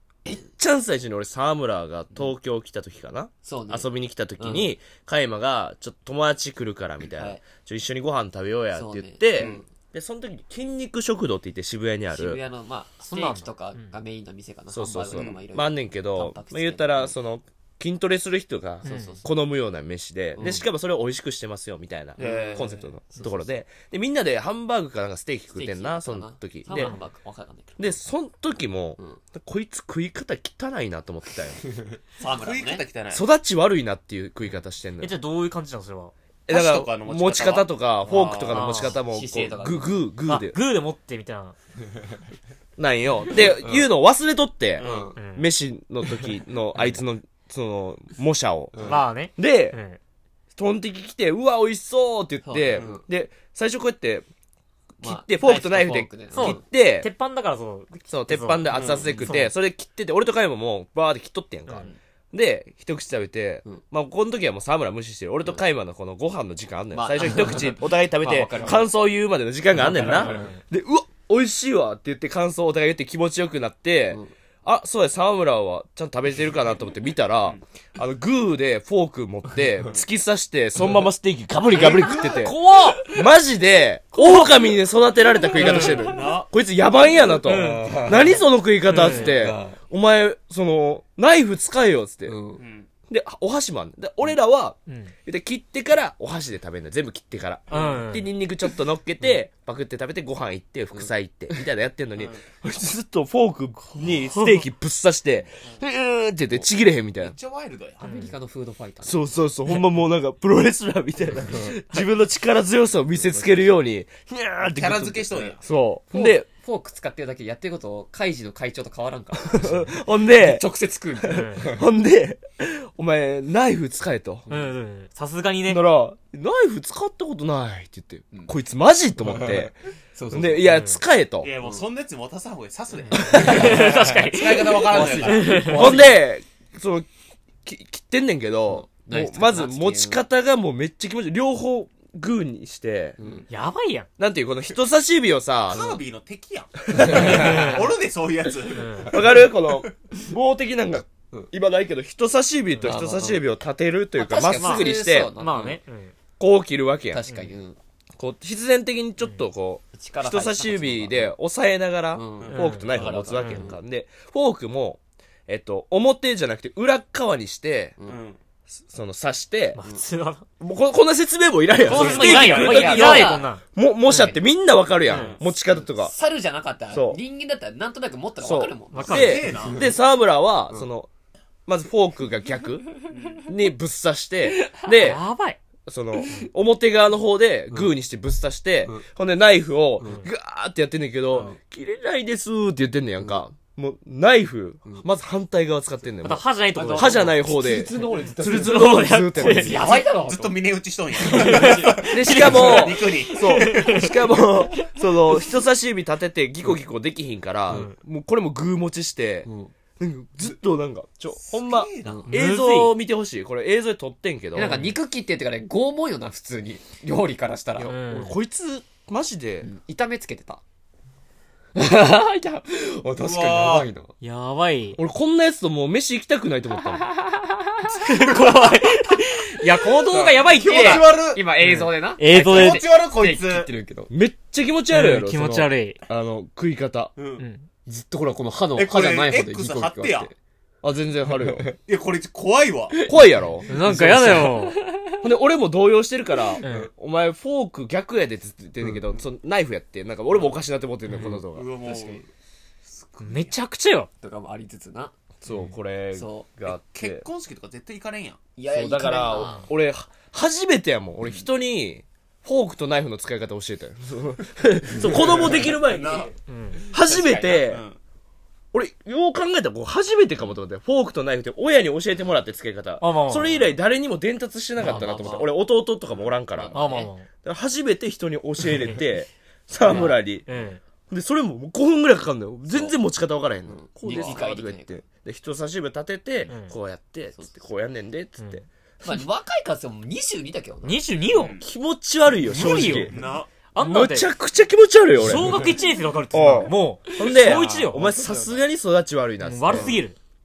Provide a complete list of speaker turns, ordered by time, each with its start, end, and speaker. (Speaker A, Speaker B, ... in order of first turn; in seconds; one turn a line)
Speaker A: 0.2-12.4
Speaker B: 3.4-4.7
Speaker B: 7.2-7.4
Speaker B: 8.7-9.7
Speaker C: 9.3-9.6
Speaker B: 12.1-17.1
Speaker D: 13.0-13.9
Speaker A: 14.7-26.9
Speaker C: 15.1-15.4
Speaker D: 18.8-19.2
Speaker B: 18.8-19.2
Speaker B: 20.4-20.6
Speaker B: 22.2-23.5
Speaker C: 22.2-22.6
Speaker B: 25.5-28.0
Speaker A: 27.8-31.6
Speaker B: 31.9-32.8
Speaker C: 32.2-33.2
Speaker A: 33.1-35.1
Speaker D: 35.0-36.1
Speaker A: 36.5-40.6
Speaker C: 36.5-38.9
Speaker D: 38.5-39.0
Speaker B: 39.0-40.0
Speaker D: 40.3-41.5
Speaker A: 42.8-49.8
Speaker B: 43.6-43.9
Speaker C: 44.8-45.1
Speaker B: 44.8-45.2
Speaker D: 45.2-45.5
Speaker B: 48.7-49.0
Speaker D: 48.8-50.0
Speaker A: 50.5-54.2
Speaker B: 52.4-53.0
Speaker A: 55.0-57.1
Speaker B: 55.0-56.6
Speaker D: 56.3-58.6
Speaker A: 58.1-92.3
Speaker C: 58.7-59.1
Speaker B: 58.7-59.3
Speaker D: 59.2-59.5
Speaker B: 66.9-68.9
Speaker B: 69.8-70.5
Speaker D: 69.8-70.6
Speaker D: 81.7-83.1
Speaker B: 81.7-83.2
Speaker D: 84.2-84.5
Speaker D: 85.6-86.1
Speaker B: 85.6-86.3
Speaker C: 85.6-86.5
Speaker D: 87.4-88.3
Speaker B: 87.4-89.8
Speaker D: 88.9-89.4
Speaker B: 92.2-92.6
Speaker C: 92.6-92.9
Speaker A: 93.1-107.3
Speaker D: 94.9-95.1
Speaker D: 97.7-98.3
Speaker C: 97.7-98.0
Speaker C: 102.2-102.4
Speaker D: 104.3-104.6
Speaker C: 107.2-108.0
Speaker B: 108.0-109.2
Speaker D: 108.0-108.3
Speaker A: 109.0-116.5
Speaker B: 111.4-111.8
Speaker B: 113.1-113.7
Speaker C: 114.8-115.6
Speaker B: 116.1-121.8
Speaker A: 119.5-120.6
Speaker A: 121.2-124.5
Speaker D: 121.3-121.7
Speaker B: 124.5-124.7
Speaker D: 124.5-125.8
Speaker A: 125.7-129.7
Speaker B: 129.2-130.8
Speaker A: 130.3-131.5
Speaker D: 130.7-131.0
Speaker C: 131.4-135.9
Speaker D: 133.1-136.0
Speaker A: 133.1-133.8
Speaker B: 133.2-136.2
Speaker A: 135.7-137.1
Speaker A: 137.6-143.2
Speaker B: 138.7-140.2
Speaker B: 143.2-143.5
Speaker D: 143.5-144.1
Speaker A: 144.2-146.0
Speaker C: 145.7-149.3
Speaker A: 146.9-147.5
Speaker B: 146.9-147.8
Speaker D: 147.1-147.9
Speaker D: 148.8-149.1
Speaker A: 149.1-155.3
Speaker B: 152.8-153.4
Speaker B: 154.2-155.8
Speaker D: 154.6-156.1
Speaker A: 156.4-157.2
Speaker B: 157.1-157.8
Speaker A: 158.2-167.9
Speaker B: 159.9-161.3
Speaker B: 162.1-163.8
Speaker D: 162.5-163.7
Speaker C: 168.0-168.4
Speaker A: 168.9-169.8
Speaker D: 169.7-170.4
Speaker A: 170.6-176.1
Speaker D: 171.8-174.3
Speaker C: 171.9-173.3
Speaker B: 171.9-173.5
Speaker D: 175.1-175.3
Speaker C: 175.1-175.4
Speaker B: 175.7-179.9
Speaker A: 176.9-177.2
Speaker A: 178.4-181.1
Speaker D: 178.9-179.6
Speaker C: 179.0-179.9
Speaker A: 181.7-182.8
Speaker C: 183.1-183.4
Speaker A: 183.5-185.2
Speaker B: 184.5-184.9
Speaker D: 184.9-185.6
Speaker A: 185.9-199.9
Speaker B: 186.2-186.4
Speaker B: 190.0-190.2
Speaker B: 191.3-191.6
Speaker D: 196.2-197.4
Speaker B: 196.7-200.6
Speaker D: 198.0-200.0
Speaker C: 199.8-204.1
Speaker B: 201.2-202.1
Speaker D: 201.2-205.0
Speaker A: 202.1-214.8
Speaker B: 209.4-209.7
Speaker C: 211.4-212.3
Speaker B: 212.0-212.3
Speaker D: 212.3-212.9
Speaker B: 214.5-217.9
Speaker D: 214.6-214.9
Speaker A: 217.8-219.7
Speaker D: 217.8-218.4
Speaker B: 219.6-220.6
Speaker B: 221.8-224.1
Speaker C: 223.2-223.9
Speaker D: 224.2-225.0
Speaker A: 225.0-227.1
Speaker B: 227.1-234.1
Speaker D: 227.9-231.1
Speaker C: 230.1-231.4
Speaker D: 231.6-232.8
Speaker C: 232.3-233.7
Speaker A: 234.1-237.1
Speaker D: 234.9-236.0
Speaker C: 237.2-237.4
Speaker D: 237.4-237.7
Speaker B: 237.8-240.3
Speaker C: 238.8-240.3
Speaker A: 240.8-241.7
Speaker B: 241.3-241.8
Speaker C: 241.8-243.0
Speaker B: 242.9-245.2
Speaker A: 243.1-244.5
Speaker D: 243.7-244.8
Speaker A: 245.2-251.7
Speaker B: 246.5-246.9
Speaker D: 246.6-246.9
Speaker D: 251.1-251.4
Speaker C: 251.5-252.2
Speaker B: 251.8-252.2
Speaker C: 252.8-253.6
Speaker D: 253.2-254.1
Speaker B: 254.2-255.1
Speaker A: 255.4-257.2
Speaker D: 255.5-255.7
Speaker B: 256.1-256.5
Speaker C: 256.6-258.4
Speaker B: 258.6-259.7
Speaker A: 258.7-266.3
Speaker B: 264.9-265.8
Speaker C: 265.1-266.3
Speaker D: 266.4-266.8
Speaker B: 266.8-267.6
Speaker A: 266.9-267.8
Speaker C: 267.1-268.0
Speaker A: 268.7-276.8
Speaker D: 273.0-273.7
Speaker B: 274.8-275.5
Speaker B: 276.5-277.1
Speaker D: 276.7-277.3
Speaker A: 277.4-280.4
Speaker B: 279.8-280.2
Speaker D: 279.8-280.8
Speaker A: 281.1-288.6
Speaker B: 282.7-283.0
Speaker B: 283.7-284.9
Speaker C: 284.1-284.4
Speaker D: 286.5-286.7
Speaker B: 289.0-291.0
Speaker D: 290.8-291.6
Speaker C: 291.3-291.7
Speaker A: 291.6-293.1
Speaker D: 292.4-294.3
Speaker C: 292.9-293.5
Speaker A: 293.8-295.8
Speaker D: 295.1-298.1
Speaker A: 296.3-300.0
Speaker B: 297.1-298.6
Speaker D: 299.4-300.1